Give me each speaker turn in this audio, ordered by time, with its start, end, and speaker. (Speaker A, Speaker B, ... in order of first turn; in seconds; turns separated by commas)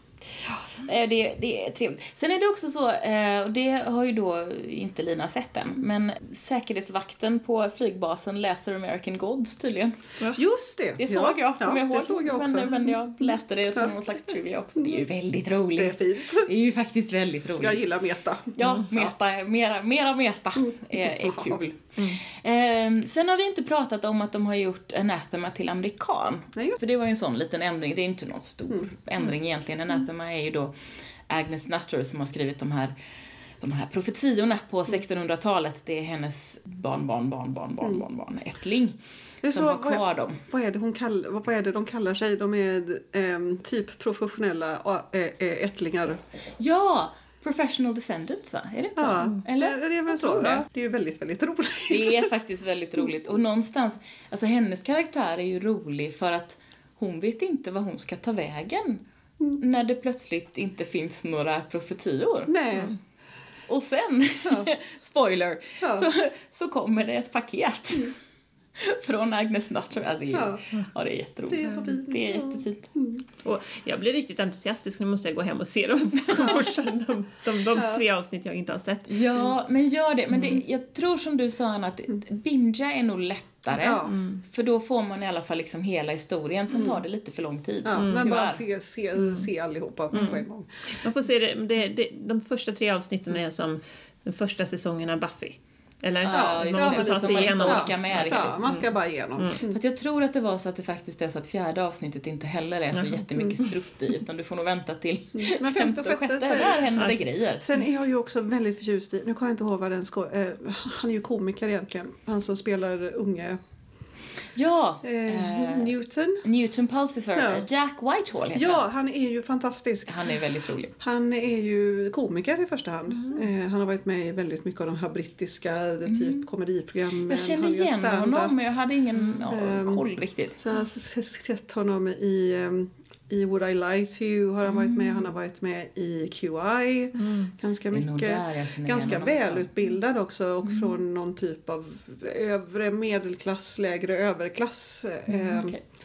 Speaker A: 0.4-10.0, Speaker B: 10.3-13.9, Speaker A: 11.0-17.8, Speaker B: 15.8-16.5, Speaker B: 17.6-19.1, Speaker A: 18.5-30.7, Speaker B: 20.6-21.6, Speaker A: 31.3-32.9, Speaker A: 33.6-39.0, Speaker B: 39.4-46.2, Speaker A: 39.5-40.4, Speaker A: 46.6-50.6, Speaker B: 49.0-52.3, Speaker A: 51.9-59.0, Speaker A: 59.6-62.5, Speaker B: 62.5-63.0, Speaker A: 63.7-68.1, Speaker B: 64.5-64.7, Speaker B: 65.8-66.1, Speaker A: 68.8-72.9, Speaker B: 70.3-70.6, Speaker B: 71.5-73.2, Speaker C: 73.4-79.1, Speaker A: 76.2-76.6, Speaker B: 77.7-78.0, Speaker A: 79.1-88.6, Speaker B: 83.7-84.2, Speaker C: 84.0-84.4, Speaker B: 86.7-87.0, Speaker B: 87.8-90.7, Speaker C: 88.0-88.2, Speaker C: 90.1-90.4, Speaker C: 91.0-98.9, Speaker A: 96.2-98.5, Speaker B: 96.3-99.8, Speaker A: 99.6-107.6, Speaker C: 102.9-103.2, Speaker B: 105.3-106.9, Speaker B: 107.6-113.6, Speaker A: 114.5-118.8, Speaker B: 115.0-116.4, Speaker B: 117.3-117.7, Speaker B: 118.5-120.3, Speaker A: 120.1-120.9, Speaker B: 121.0-128.5, Speaker A: 126.1-126.4, Speaker A: 127.3-130.6, Speaker B: 129.5-145.8, Speaker A: 134.6-135.3, Speaker C: 137.2-137.5, Speaker A: 137.9-139.7, Speaker A: 140.6-140.9, Speaker A: 145.3-145.8